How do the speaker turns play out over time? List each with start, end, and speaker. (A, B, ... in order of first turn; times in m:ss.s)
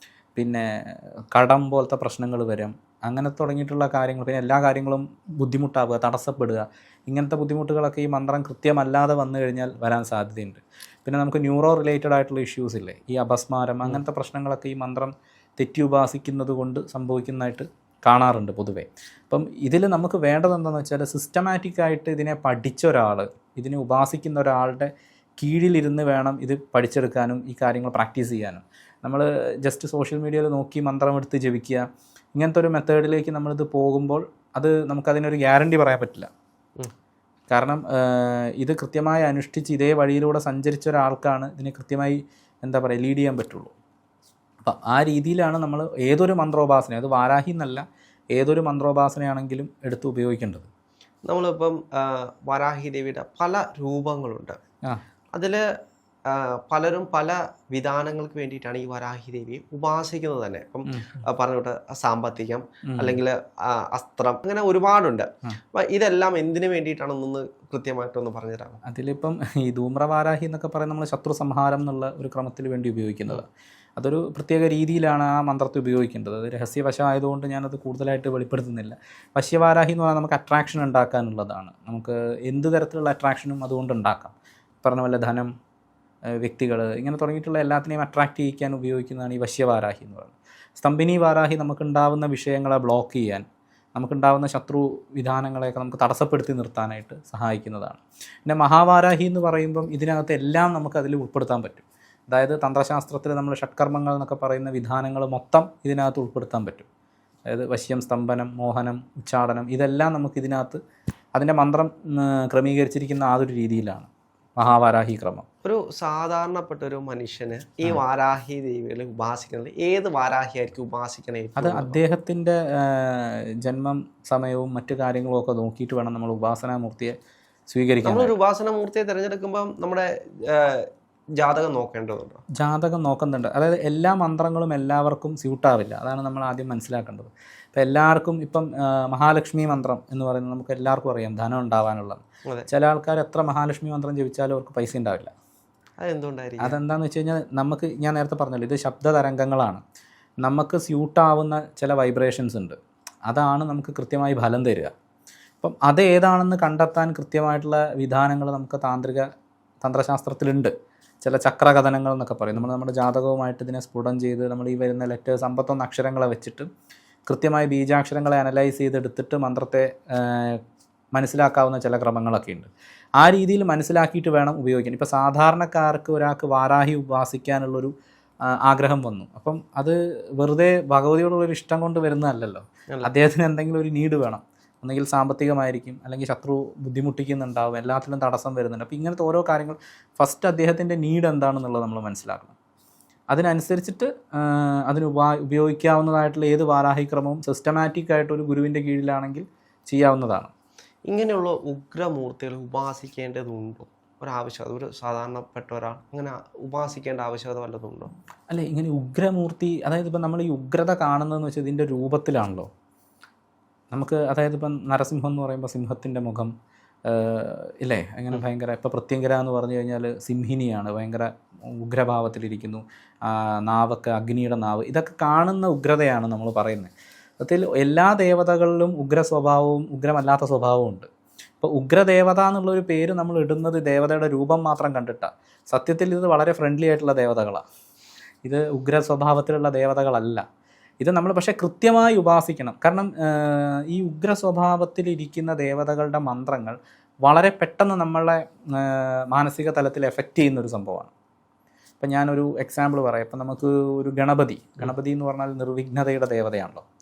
0:00.4-0:36.3 A
0:37.5-0:43.7 A
0:44.6-0:50.7 A
0:51.2-0:54.6 B
0:55.3-0:55.6 B
0:56.2-1:08.8 B
1:00.9-1:01.2 A
1:02.9-1:03.2 A
1:08.8-1:13.4 A
1:14.0-1:25.5 A
1:26.4-1:46.9 A
1:47.5-1:50.8 A
1:51.3-1:55.4 A
1:55.6-2:02.0 B
2:01.6-2:07.2 A
2:07.7-2:08.3 A
2:08.0-2:12.4 B
2:12.6-2:25.3 A
2:26.0-2:26.8 B
2:26.6-2:29.8 A
2:30.4-2:34.9 A
2:35.6-2:39.3 A
2:39.8-2:46.7 A
2:47.3-2:50.6 A
2:51.1-2:57.9 A
2:58.5-3:12.5 A
3:13.3-3:20.5 A
3:21.1-3:28.1 B
3:28.5-3:32.7 A
3:33.9-3:36.5 A
3:37.0-3:51.1 A
3:51.6-3:57.6 A
3:58.4-4:00.4 A
4:01.0-4:11.1 A
4:12.0-4:16.8 A